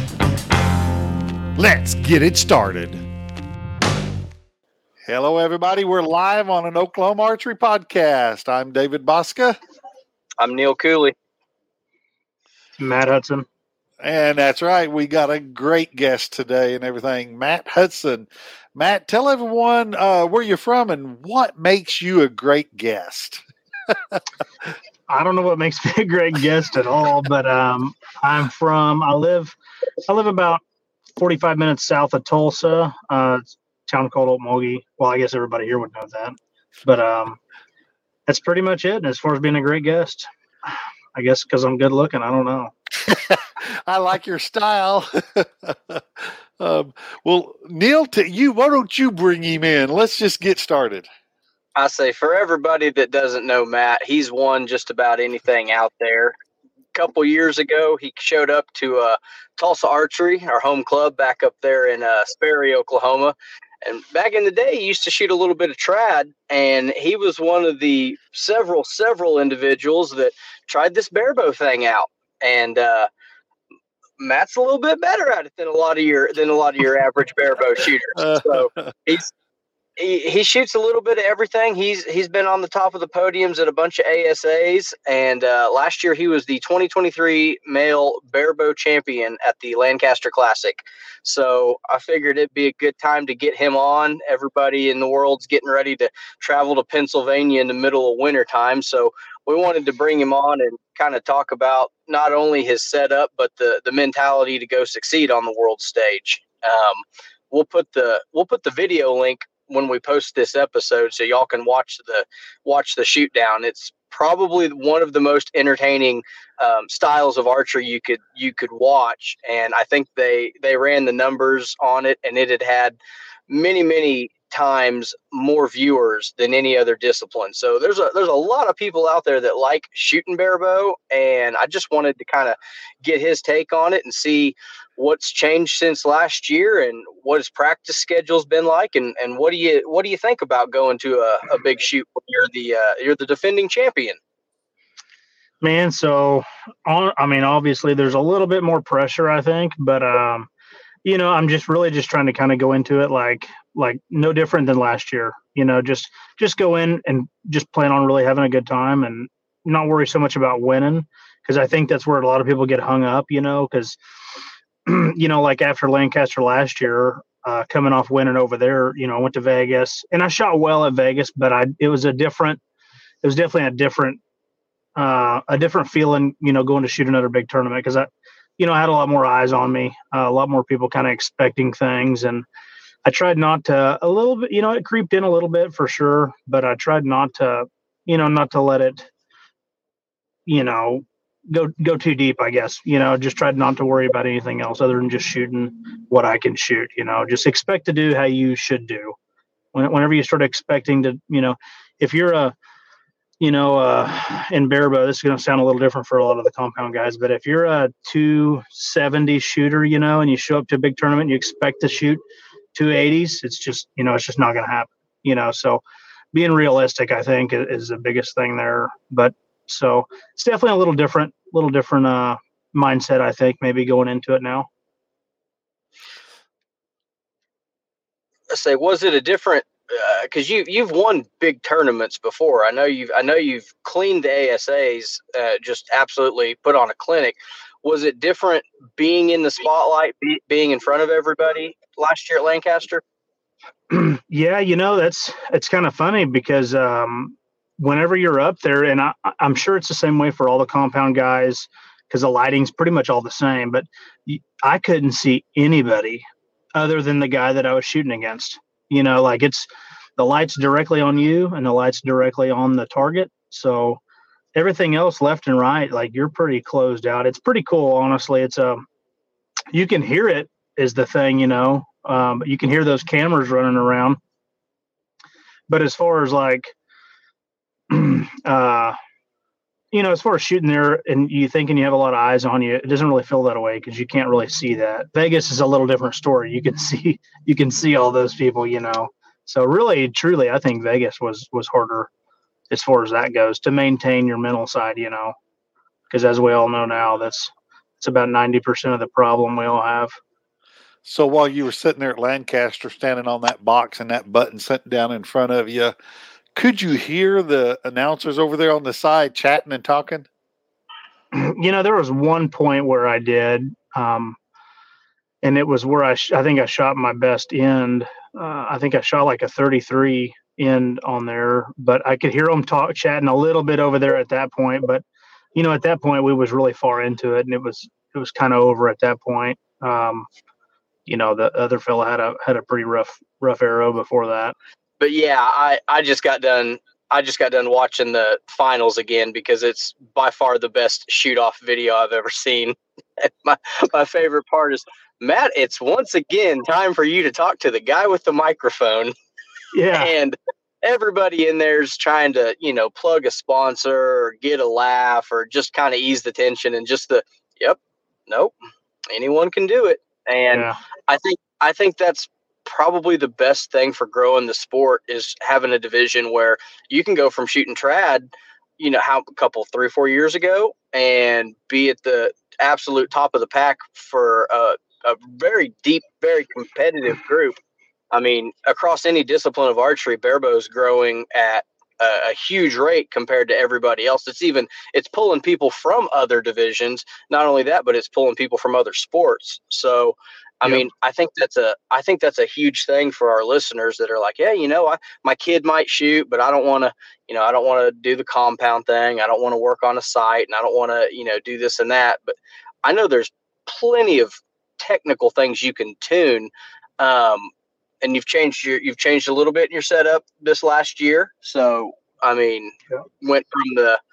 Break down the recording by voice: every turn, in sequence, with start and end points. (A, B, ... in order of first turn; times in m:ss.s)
0:01.6-0:03.0 A
0:05.1-0:09.6 A
0:10.4-0:11.2 B
0:12.8-0:13.5 C
0:14.0-0:24.2 A
0:25.1-0:29.6 C
0:30.1-0:30.6 C
0:31.2-0:37.4 C
0:38.3-0:40.3 C
0:41.2-0:42.7 C
0:43.1-0:51.1 A
0:51.8-0:56.4 B
0:56.9-1:13.1 B
1:14.2-1:19.3 B
1:18.2-1:18.9 A
1:20.0-2:03.0 B
2:03.5-2:24.2 B
2:25.6-2:30.5 C
2:31.0-2:44.0 C
2:44.9-2:52.6 C
2:53.2-2:54.2 C
2:55.0-3:02.4 C
3:03.1-3:09.1 C
3:10.5-3:19.2 C
3:19.7-3:22.6 C
3:23.4-3:32.2 C
3:32.8-3:35.8 C
3:36.3-3:44.7 C
3:48.5-4:03.0 B
4:03.9-4:24.0 C
4:24.6-4:28.8 C
4:29.7-4:34.2 C
4:35.7-4:36.7 C
4:37.9-4:39.0 C
4:39.9-4:52.1 C
4:52.7-4:55.4 C
4:56.1-5:00.2 C
5:01.0-5:06.0 A
5:06.6-5:10.3 A
5:11.3-5:14.4 C
5:15.4-5:25.0 C
5:25.6-5:30.3 C
5:31.1-5:34.5 C
5:35.0-5:49.1 B
5:49.7-5:50.1 C
5:50.0-5:58.5 B
5:59.1-6:17.6 B
6:00.5-6:00.8 C
6:18.1-6:47.5 B
6:48.0-6:54.0 B